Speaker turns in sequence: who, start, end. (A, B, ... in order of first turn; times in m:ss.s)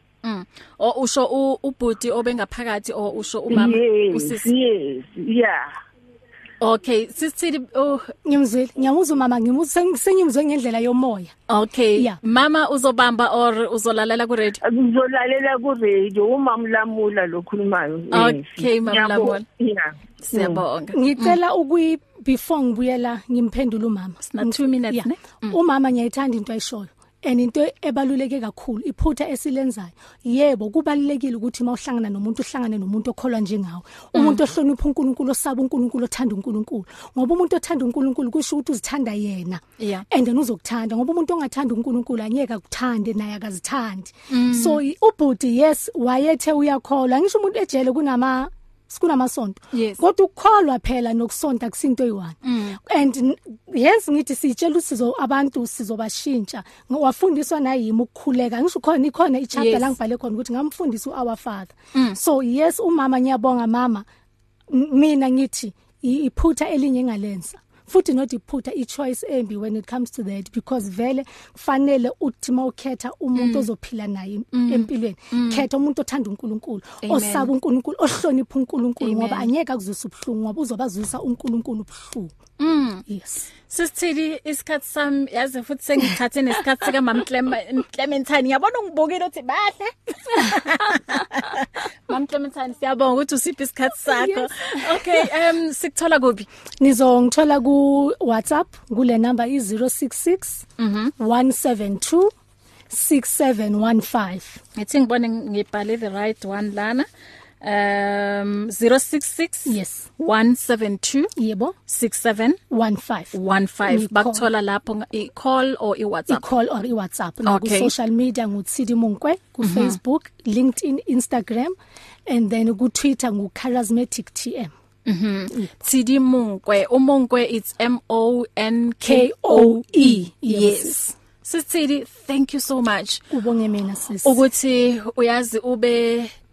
0:00.2-0:04.5 A
0:03.5-0:05.7 B
0:06.6-0:08.1 A
0:08.2-0:11.4 C
0:11.5-0:14.6 A
0:14.6-0:20.6 B
0:18.1-0:19.5 A
0:20.2-0:21.4 A
0:20.9-1:04.0 C
0:24.3-0:25.6 A
0:34.2-0:34.4 A
0:39.8-0:40.0 A
0:44.3-0:44.8 A
0:49.7-0:50.0 A
0:52.4-0:52.8 A
0:59.6-0:59.9 A
1:04.7-1:22.3 C
1:13.4-1:13.7 A
1:14.5-1:15.7 A
1:17.0-1:17.5 A
1:19.0-1:19.5 A
1:22.6-1:23.0 A
1:23.1-1:23.5 C
1:23.7-1:36.5 A
1:34.0-1:35.3 C
1:36.8-1:40.7 C
1:40.8-1:41.1 A
1:41.2-1:42.3 C
1:42.9-1:44.6 C
1:44.8-1:47.1 A
1:47.6-1:51.3 A
1:49.7-1:50.1 C
1:51.4-1:51.8 C
1:51.9-1:52.6 A
1:52.7-1:53.4 C
1:53.3-1:56.4 A
1:53.9-1:54.5 C
1:56.3-2:01.8 C
1:57.4-1:57.9 A
1:59.6-2:00.0 A
2:02.3-2:04.7 C
2:05.1-2:13.2 A
2:09.0-2:11.0 C
2:13.3-2:14.4 C
2:14.2-2:16.3 A